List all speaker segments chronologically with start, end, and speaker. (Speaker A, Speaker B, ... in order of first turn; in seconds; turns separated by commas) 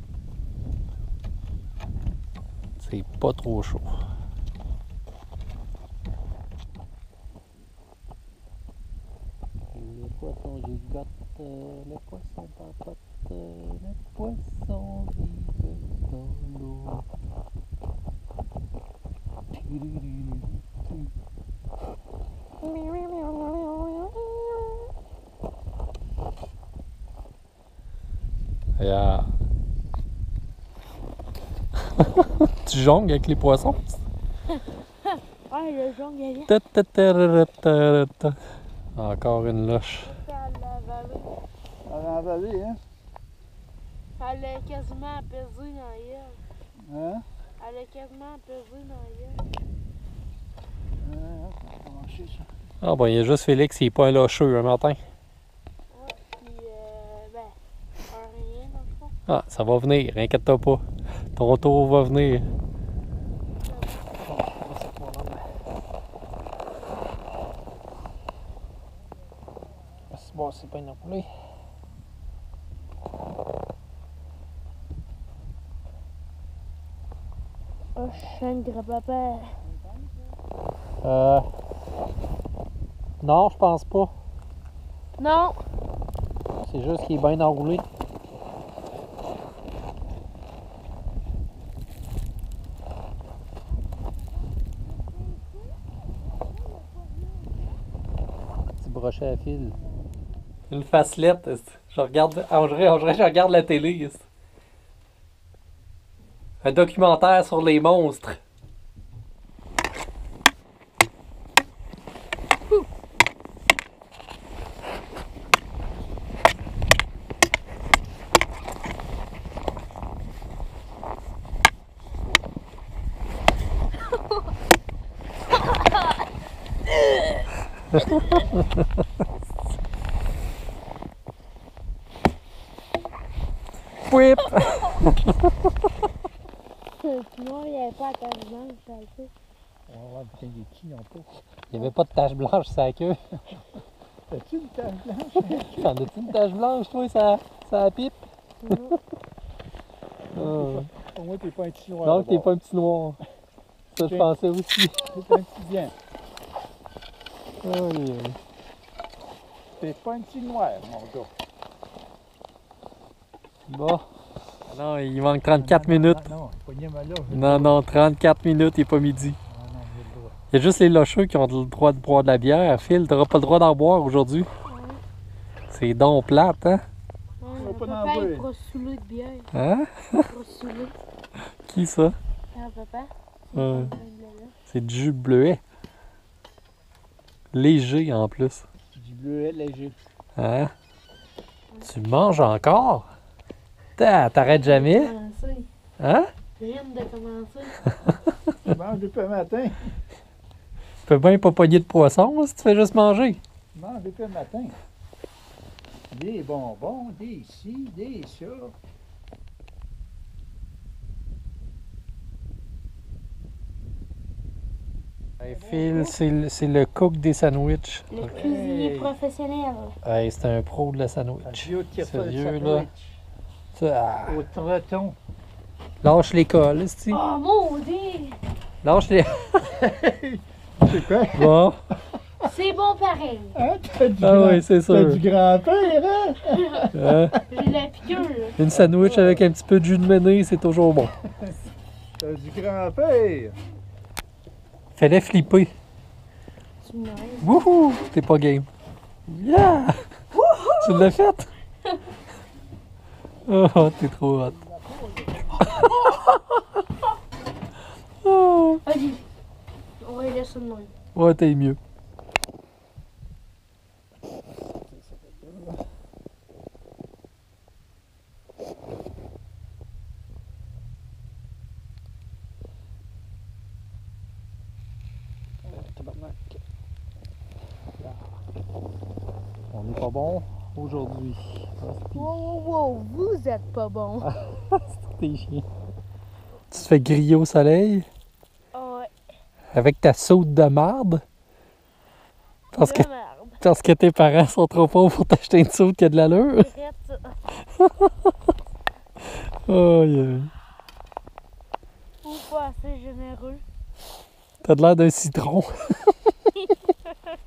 Speaker A: 2.8-3.9, Speaker A: 9.7-17.0, Speaker A: 19.6-20.0, Speaker A: 22.6-24.7, Speaker A: 28.8-29.3, Speaker A: 32.0-34.0, Speaker B: 35.0-36.5, Speaker A: 36.5-38.4, Speaker A: 38.9-40.1, Speaker B: 40.0-41.3, Speaker C: 41.8-42.8, Speaker B: 44.2-46.4, Speaker C: 46.8-47.2, Speaker B: 47.6-49.5, Speaker C: 51.0-52.5, Speaker A: 52.8-55.0, Speaker B: 55.9-57.5, Speaker B: 58.1-59.1, Speaker A: 59.3-60.8, Speaker A: 61.3-62.5, Speaker B: 63.6-64.1, Speaker A: 64.2-65.4, Speaker A: 70.1-71.3, Speaker B: 78.0-79.6, Speaker A: 81.0-81.5, Speaker A: 83.2-84.1, Speaker B: 85.2-85.6, Speaker A: 86.6-87.8, Speaker A: 98.8-99.8, Speaker A: 100.7-104.2, Speaker A: 106.6-108.4, Speaker A: 128.0-128.6, Speaker A: 134.1-135.3, Speaker B: 137.0-139.3, Speaker C: 139.9-141.3, Speaker A: 141.7-143.2, Speaker C: 144.3-146.3, Speaker A: 145.4-148.8, Speaker B: 148.6-148.9, Speaker A: 150.3-150.9, Speaker C: 150.3-152.5, Speaker A: 152.0-153.2, Speaker A: 153.9-155.1, Speaker C: 153.9-154.3, Speaker C: 155.0-155.9, Speaker A: 157.6-158.4, Speaker C: 159.8-161.3, Speaker A: 163.7-164.0, Speaker A: 164.7-166.3, Speaker C: 165.5-167.7, Speaker A: 167.3-169.4, Speaker C: 169.5-170.3, Speaker A: 170.5-174.5, Speaker B: 174.7-175.0, Speaker A: 175.7-176.8, Speaker B: 177.4-179.5, Speaker C: 177.6-178.5, Speaker A: 179.5-180.3, Speaker B: 180.3-180.9, Speaker A: 181.7-182.2, Speaker B: 182.5-184.5, Speaker A: 183.5-183.9, Speaker A: 184.7-185.6, Speaker A: 187.5-188.6, Speaker C: 188.9-189.9, Speaker A: 190.4-190.7, Speaker A: 191.8-193.1, Speaker A: 194.0-195.1, Speaker B: 194.4-195.7, Speaker A: 196.0-196.3, Speaker B: 196.6-197.8, Speaker C: 198.7-199.8, Speaker A: 201.0-203.4, Speaker C: 203.7-204.7, Speaker C: 206.1-208.7, Speaker A: 215.4-218.3, Speaker C: 215.7-216.1, Speaker B: 218.1-219.9, Speaker C: 218.3-219.1, Speaker A: 220.0-222.9, Speaker C: 221.4-223.2, Speaker A: 223.7-224.4, Speaker C: 224.2-225.2, Speaker A: 226.0-227.2, Speaker B: 227.1-228.4, Speaker A: 228.8-229.8, Speaker C: 229.8-231.5, Speaker A: 231.3-231.8, Speaker B: 232.4-233.6, Speaker C: 233.5-237.4, Speaker A: 234.2-235.2, Speaker B: 236.4-236.9, Speaker A: 236.9-237.4, Speaker B: 237.5-238.6, Speaker A: 238.6-241.1, Speaker C: 238.7-239.4, Speaker C: 242.2-243.6, Speaker A: 244.9-245.7, Speaker B: 246.8-247.6, Speaker A: 247.4-248.7, Speaker A: 249.3-250.0, Speaker B: 250.5-250.8, Speaker A: 250.7-251.5, Speaker A: 253.4-254.6, Speaker C: 254.4-255.6, Speaker A: 258.2-258.8, Speaker B: 258.9-259.2, Speaker B: 260.0-260.9, Speaker A: 261.1-261.8, Speaker C: 264.7-265.8, Speaker C: 275.7-276.6, Speaker C: 279.7-280.5, Speaker A: 280.7-282.4, Speaker B: 282.1-284.3, Speaker A: 284.2-285.6, Speaker A: 286.7-288.1, Speaker B: 288.7-289.1, Speaker A: 289.7-291.2, Speaker A: 292.7-293.1, Speaker B: 292.7-293.6, Speaker A: 293.6-296.7, Speaker B: 296.6-297.4, Speaker A: 297.8-298.1, Speaker A: 299.6-300.5, Speaker B: 302.2-303.6, Speaker A: 304.6-306.1